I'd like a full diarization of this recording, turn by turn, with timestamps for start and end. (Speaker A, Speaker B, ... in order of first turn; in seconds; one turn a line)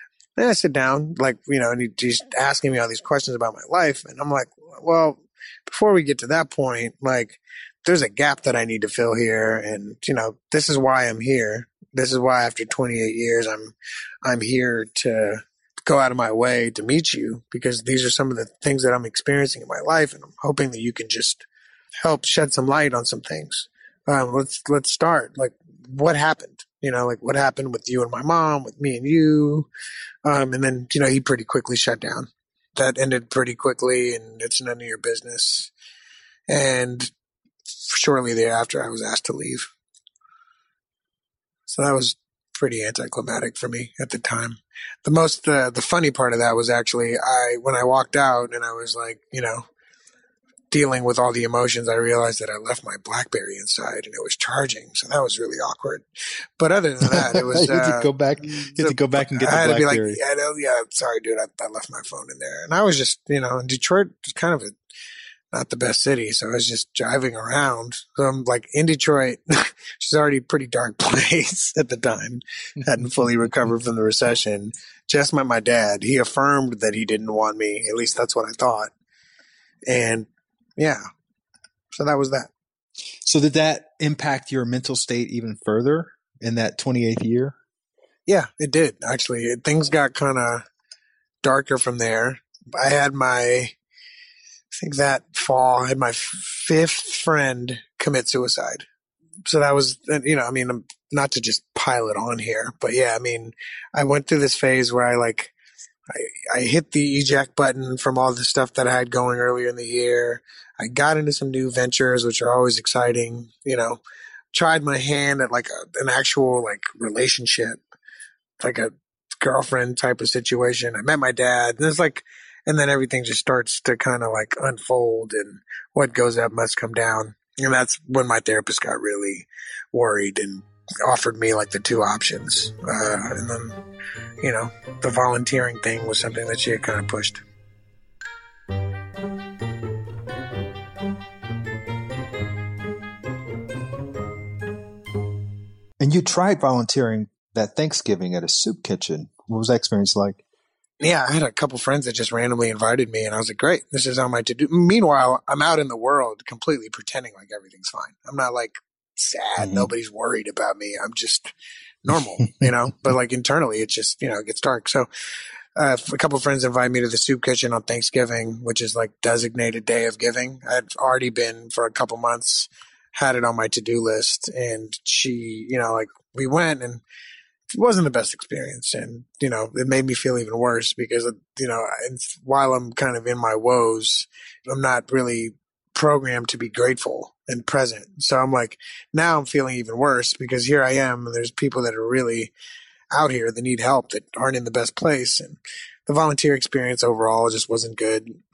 Speaker A: 0.4-21.5
Speaker A: 22.0-29.7
Speaker A: 30.2-35.7
Speaker A: 36.5-37.1
Speaker A: 37.8-39.7
Speaker A: 41.7-49.7
Speaker A: 50.7-56.1
Speaker A: 56.6-64.8
Speaker B: 57.1-60.2
Speaker A: 65.5-78.9
Speaker A: 79.9-81.0
Speaker A: 81.9-82.5
Speaker B: 83.3-87.5
Speaker A: 88.3-90.7
Speaker A: 91.4-93.8
Speaker A: 94.7-98.8
Speaker A: 99.5-105.5
Speaker A: 106.1-114.0
Speaker A: 114.5-117.8
Speaker A: 118.6-133.8
Speaker A: 134.4-137.4
Speaker B: 146.0-150.4
Speaker A: 151.0-165.1
Speaker B: 159.6-159.9
Speaker A: 165.8-177.0
Speaker A: 177.8-192.5
Speaker A: 193.1-198.4